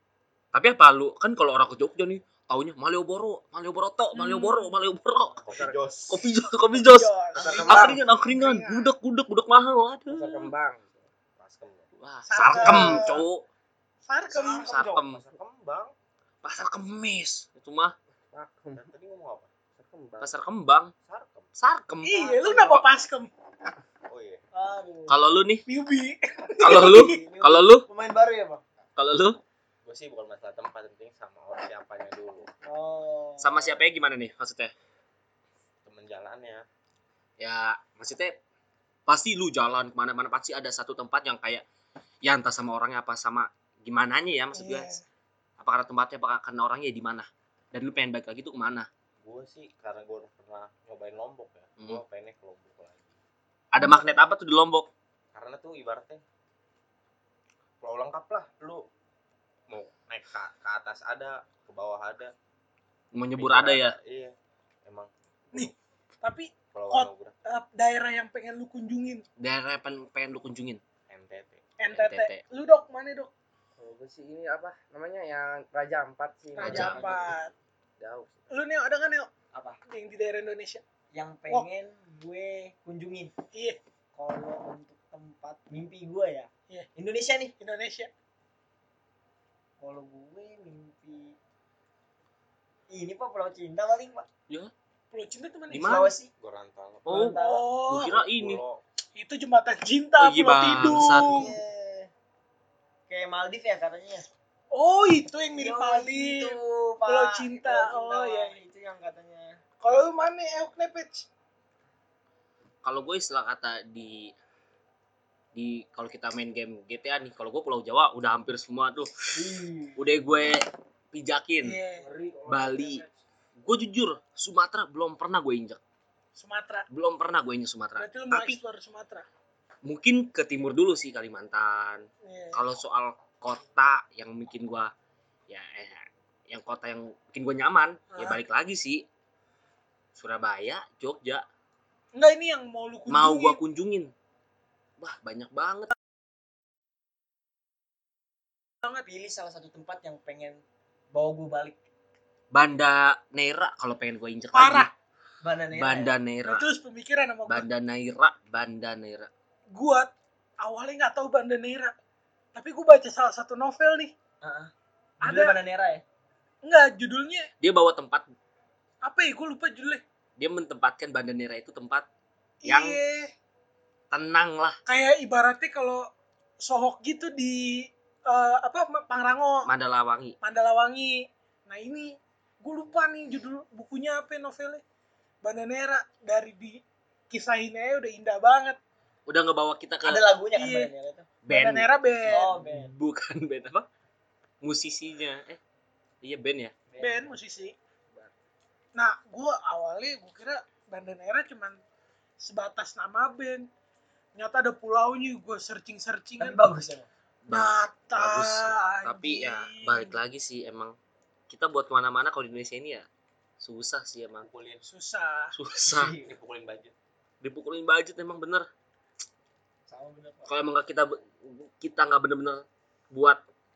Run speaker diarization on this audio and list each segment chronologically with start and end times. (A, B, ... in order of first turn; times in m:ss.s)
0:00.5-0:10.5 A
0:04.1-0:04.7 B
0:05.5-0:06.3 C
0:05.5-0:05.8 D
0:06.7-0:08.9 B
0:07.4-0:08.0 D
0:10.1-0:11.0 D
0:11.4-0:11.9 C
0:12.0-0:13.4 A
0:12.3-0:13.3 B
0:14.1-0:14.7 B
0:14.3-0:15.9 C
0:14.4-0:15.0 E
0:14.6-0:15.2 A
0:16.4-0:17.9 A
0:18.3-0:18.9 D
0:18.8-0:19.5 C
0:19.8-0:20.3 D
0:20.2-0:20.9 A
0:21.0-0:21.5 C
0:21.6-0:22.8 A
0:22.0-0:23.3 B
0:22.2-0:22.5 E
0:24.1-0:24.4 C
0:24.5-0:25.2 E
0:25.1-0:25.6 A
0:25.7-0:27.2 B
0:26.6-0:28.6 E
0:26.6-0:27.9 A
0:29.0-0:29.4 A
0:29.8-0:32.5 C
0:32.6-0:33.9 E
0:33.4-0:34.7 A
0:35.8-0:36.6 C
0:37.4-0:38.4 A
0:39.1-0:41.6 A
0:42.2-0:44.9 A
0:44.6-0:45.0 B
0:45.6-0:48.9 A
0:49.2-0:53.2 C
0:53.7-0:54.9 A
0:53.8-0:54.2 B
0:55.3-0:56.2 C
0:57.8-0:58.8 C
0:59.7-1:02.3 C
1:03.1-1:04.0 A
1:03.4-1:05.7 C
1:05.5-1:09.2 B
1:06.7-1:07.4 C
1:09.4-1:10.8 A
1:11.1-1:11.7 C
1:11.8-1:13.3 B
1:11.9-1:12.4 A
1:13.8-1:17.4 D
1:16.6-1:17.5 B
1:16.6-1:17.2 A
1:18.0-1:18.5 D
1:18.5-1:19.3 B
1:19.5-1:19.8 E
1:19.9-1:20.8 B
1:21.1-1:23.3 E
1:24.2-1:27.5 E
1:27.6-1:28.1 B
1:29.8-1:31.4 E
1:32.9-1:34.3 E
1:35.1-1:36.1 B
1:35.7-1:36.1 A
1:35.8-1:36.3 E
1:36.4-1:37.3 C
1:37.1-1:38.6 A
1:37.1-1:37.7 E
1:37.3-1:38.1 B
1:38.0-1:38.8 C
1:39.2-1:41.6 B
1:40.2-1:41.6 A
1:41.0-1:42.1 E
1:43.1-1:44.2 E
1:44.7-1:48.6 B
1:45.6-1:49.6 E
1:49.8-1:51.3 B
1:52.8-1:54.3 A
1:55.5-2:01.8 A
1:59.3-2:00.0 E
2:01.6-2:02.1 B
2:02.0-2:03.1 E
2:02.5-2:03.0 A
2:03.6-2:05.8 A
2:06.4-2:06.9 B
2:06.9-2:08.6 A
2:08.0-2:09.3 B
2:09.8-2:14.9 A
2:12.2-2:12.6 B
2:15.5-2:19.0 A
2:18.1-2:18.4 B
2:20.2-2:21.4 A
2:22.1-2:23.6 B
2:23.1-2:24.1 A
2:25.0-2:25.9 A
2:29.0-2:30.6 E
2:31.1-2:31.8 E
2:32.5-2:34.9 A
2:34.5-2:34.9 B
2:35.4-2:36.1 E
2:35.7-2:36.7 A
2:36.4-2:37.7 B
2:37.5-2:39.3 A
2:39.7-2:41.9 B
2:42.6-2:44.1 B
2:44.4-2:44.7 E
2:45.2-2:46.0 E
2:45.2-2:45.6 B
2:46.6-2:47.5 B
2:47.6-2:48.2 A
2:49.0-2:50.0 B
2:50.4-2:52.1 A
2:52.6-2:53.3 B
2:52.7-2:53.0 A
2:54.1-2:54.8 A
2:54.9-2:56.1 B
2:56.6-2:59.7 B
2:59.7-3:00.4 A
3:00.4-3:04.8 B
3:05.4-3:08.8 B
3:09.3-3:10.2 A
3:10.0-3:11.3 E
3:10.6-3:10.9 B
3:11.5-3:13.9 A
3:11.5-3:12.6 B
3:12.3-3:12.9 E
3:14.6-3:15.6 A
3:16.2-3:16.7 A
3:16.9-3:17.4 E
3:17.0-3:17.7 B
3:19.0-3:21.8 B
3:22.4-3:23.7 B
3:24.4-3:26.6 B
3:26.4-3:27.1 E
3:27.5-3:30.9 A
3:27.5-3:30.2 B
3:31.5-3:33.1 A
3:33.6-3:34.5 A
3:34.4-3:34.9 C
3:34.9-3:35.6 B
3:35.5-3:36.1 A
3:35.8-3:36.3 E
3:36.2-3:36.9 C
3:37.4-3:38.7 A
3:39.9-3:40.5 E
3:40.5-3:43.4 A